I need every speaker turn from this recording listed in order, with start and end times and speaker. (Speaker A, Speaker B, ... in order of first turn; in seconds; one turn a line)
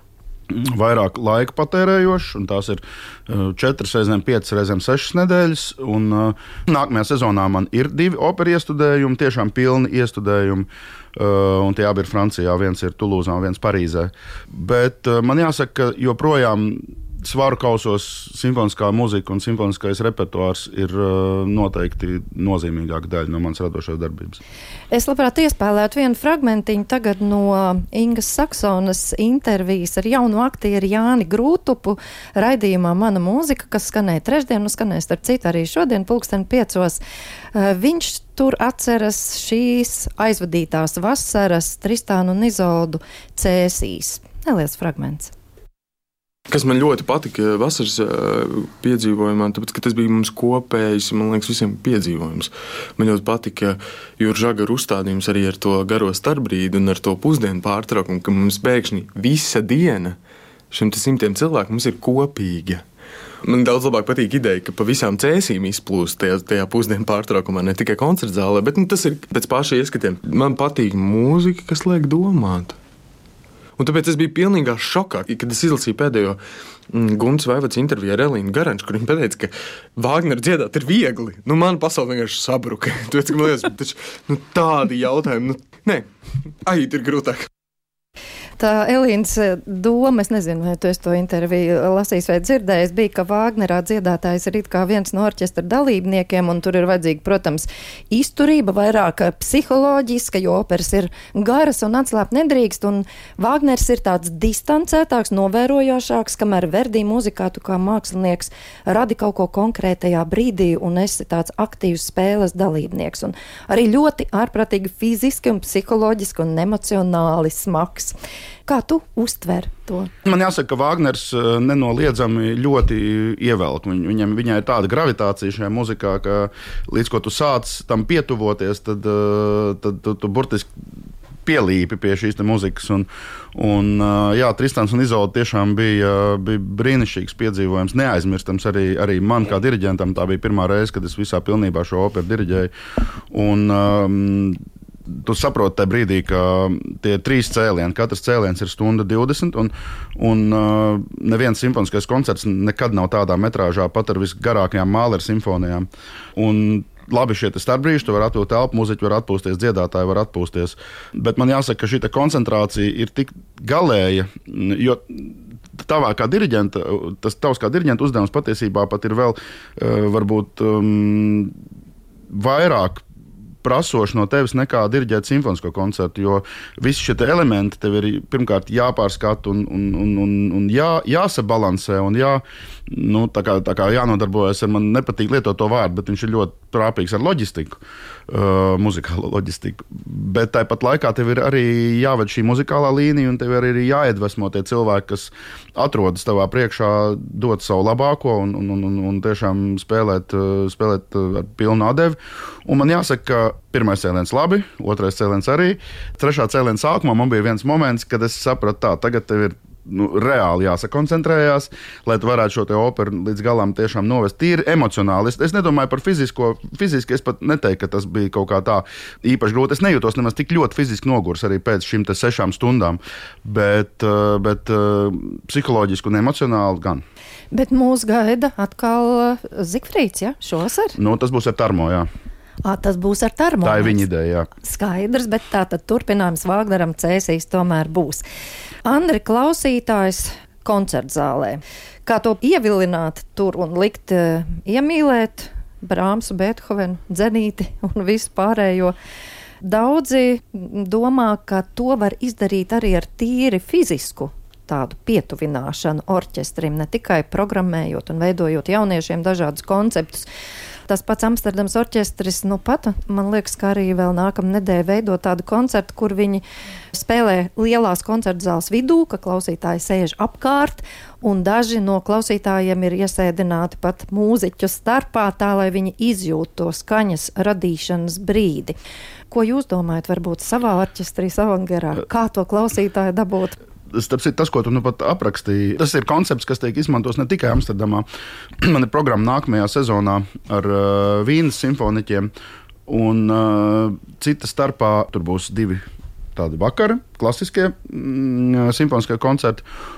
Speaker A: 0.5-24.4
Speaker B: 24.9-37.0
Speaker B: 37.5-45.3
Speaker C: 46.5-60.2
Speaker C: 60.7-62.8
Speaker C: 63.4-72.8
Speaker C: 73.8-76.4
Speaker C: 76.9-86.1
Speaker C: 86.6-87.5
Speaker B: 88.6-118.2
Speaker B: 118.7-120.1
Speaker A: 120.2-130.7
Speaker A: 131.5-142.7
Speaker A: 143.3-171.5
Speaker A: 172.3-173.0
Speaker A: 173.6-227.0
Speaker B: 227.5-231.0
Speaker A: 231.0-232.1
Speaker B: 232.6-238.2
Speaker A: 233.6-234.5
Speaker B: 238.8-248.9
Speaker B: 249.6-260.3
Speaker B: 260.9-278.8
Speaker B: 279.3-283.6
Speaker A: 283.9-288.1
Speaker A: 288.6-292.3
Speaker A: 292.9-299.6